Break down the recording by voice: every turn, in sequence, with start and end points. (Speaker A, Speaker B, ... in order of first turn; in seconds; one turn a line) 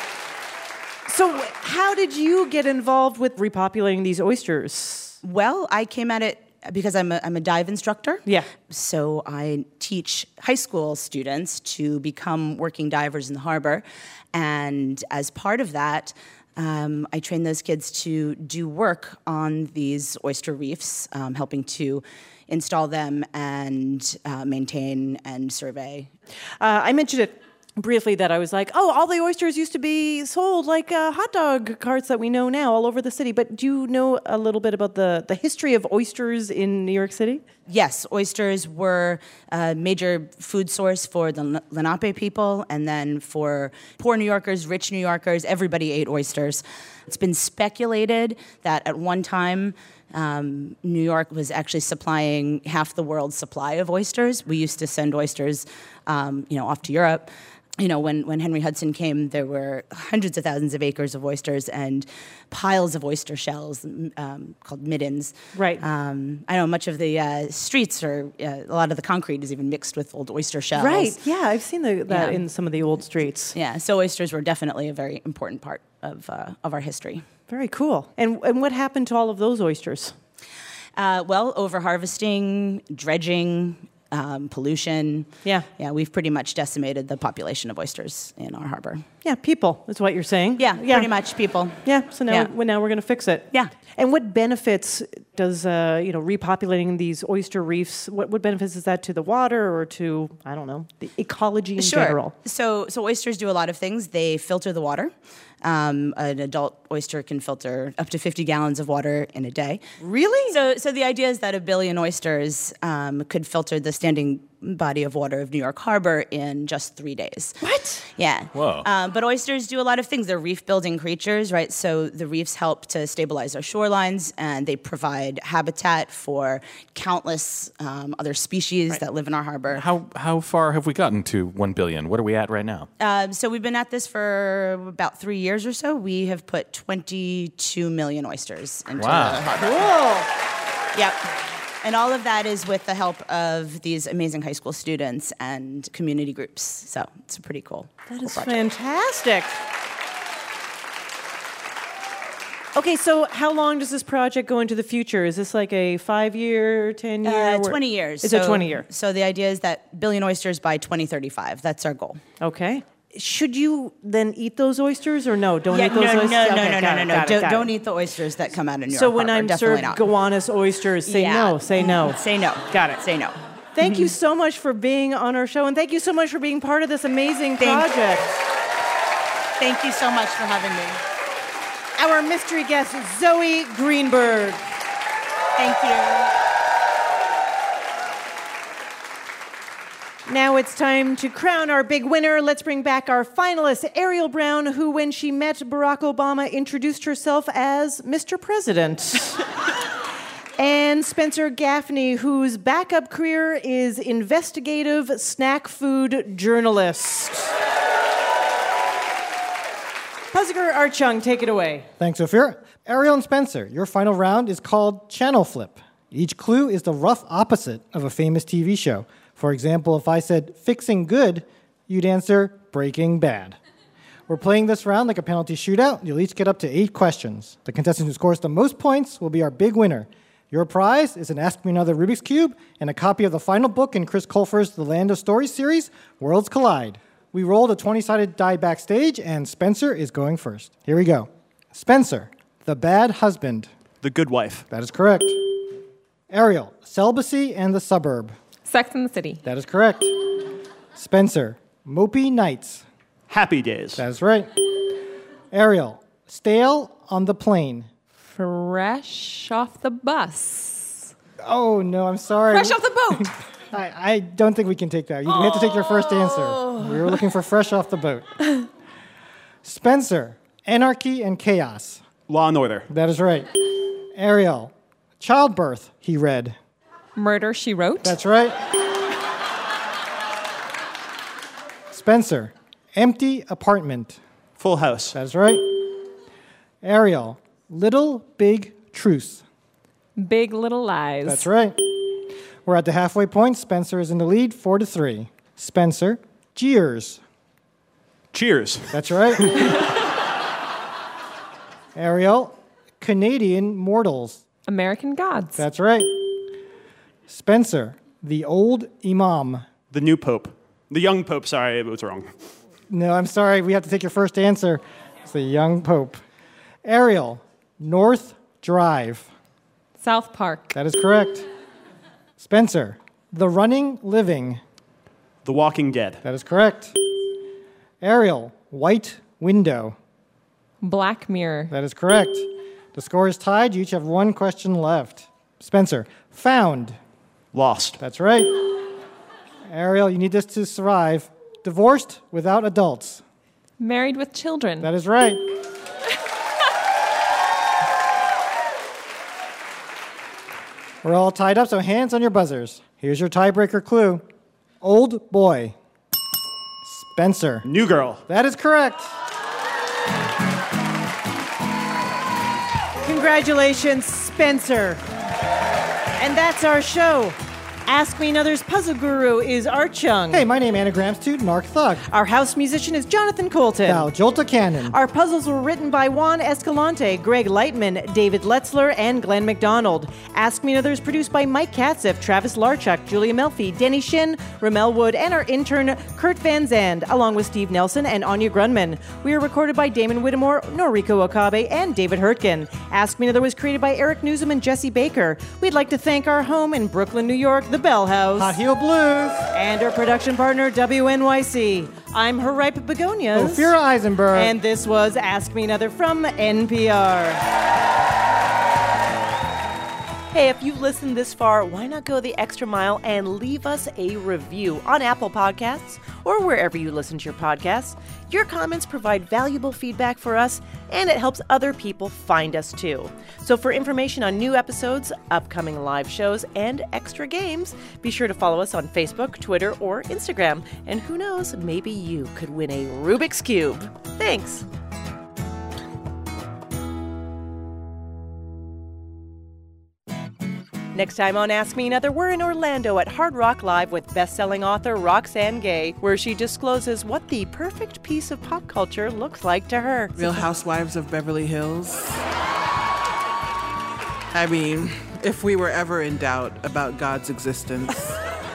Speaker A: 1.1-5.2
Speaker B: 5.2-26.1
Speaker A: 26.6-37.4
Speaker B: 37.7-71.2
Speaker A: 65.5-65.8
Speaker A: 70.7-73.5
Speaker B: 72.1-72.4
Speaker B: 73.5-77.2
Speaker A: 77.5-80.1
Speaker B: 81.0-89.0
Speaker A: 89.2-91.1
Speaker B: 90.6-92.5
Speaker A: 91.8-102.3
Speaker B: 101.8-109.8
Speaker A: 110.0-110.6
Speaker B: 110.5-117.6
Speaker A: 117.6-118.1
Speaker B: 118.2-129.8
Speaker C: 118.5-118.9
Speaker C: 129.7-132.9
Speaker B: 133.0-139.9
Speaker C: 139.0-139.5
Speaker A: 139.6-140.3
Speaker B: 140.9-141.2
Speaker B: 141.8-148.6
Speaker A: 148.1-149.5
Speaker A: 152.7-158.8
Speaker B: 157.2-162.2
Speaker A: 162.4-167.7
Speaker B: 165.7-170.0
Speaker A: 168.9-172.2
Speaker B: 171.1-174.1
Speaker A: 172.7-173.0
Speaker A: 173.7-178.3
Speaker B: 177.6-177.9
Speaker B: 179.6-181.0
Speaker A: 182.0-184.6
Speaker B: 185.6-186.3
Speaker A: 190.3-199.4
Speaker A: 200.6-207.5
Speaker A: 210.3-211.9
Speaker D: 212.0-223.6
Speaker D: 224.3-243.7
Speaker E: 244.0-244.7
Speaker D: 244.7-245.6
Speaker D: 246.3-248.3
Speaker F: 248.7-249.4
Speaker D: 249.4-250.1
Speaker D: 250.9-252.8
Speaker E: 253.3-254.0
Speaker D: 254.0-254.5
Speaker D: 255.5-257.9
Speaker F: 258.3-261.1
Speaker D: 261.4-268.3
Speaker F: 262.5-263.3
Speaker D: 269.6-272.0
Speaker E: 272.3-272.9
Speaker D: 272.9-276.6
Speaker F: 277.1-278.2
Speaker D: 278.0-278.6
Speaker D: 281.9-284.2
Speaker E: 284.6-285.1
Speaker D: 285.1-285.8
Speaker D: 286.8-289.4
Speaker F: 290.2-291.5
Speaker D: 291.2-297.2
Speaker E: 298.3-299.6
Speaker D: 298.9-299.6
Speaker D: 301.9-304.4
Speaker F: 304.7-305.6
Speaker D: 305.6-306.5
Speaker D: 307.3-309.7
Speaker E: 309.9-312.3
Speaker D: 312.9-316.2
Speaker D: 316.8-319.3
Speaker F: 320.0-320.7
Speaker D: 320.7-321.5
Speaker D: 322.4-324.6
Speaker E: 325.4-326.2
Speaker D: 326.2-326.9
Speaker D: 328.0-329.9
Speaker F: 330.8-331.7
Speaker D: 331.7-337.0
Speaker E: 337.5-338.0
Speaker D: 338.0-338.6
Speaker D: 339.7-343.2
Speaker F: 343.8-344.9
Speaker D: 344.8-345.4
Speaker D: 351.0-354.2
Speaker D: 354.8-355.7
Speaker D: 356.8-357.7
Speaker E: 357.6-358.2
Speaker D: 358.2-359.1
Speaker A: 363.0-365.0
Speaker A: 366.2-370.4
Speaker D: 370.3-372.0
Speaker A: 372.1-374.1
Speaker D: 373.8-374.9
Speaker A: 374.9-398.6
Speaker D: 398.4-399.5
Speaker A: 399.5-403.7
Speaker D: 403.3-404.5
Speaker A: 404.3-407.4
Speaker A: 410.3-434.6
Speaker A: 440.9-450.4
Speaker G: 450.1-452.2
Speaker G: 454.3-458.1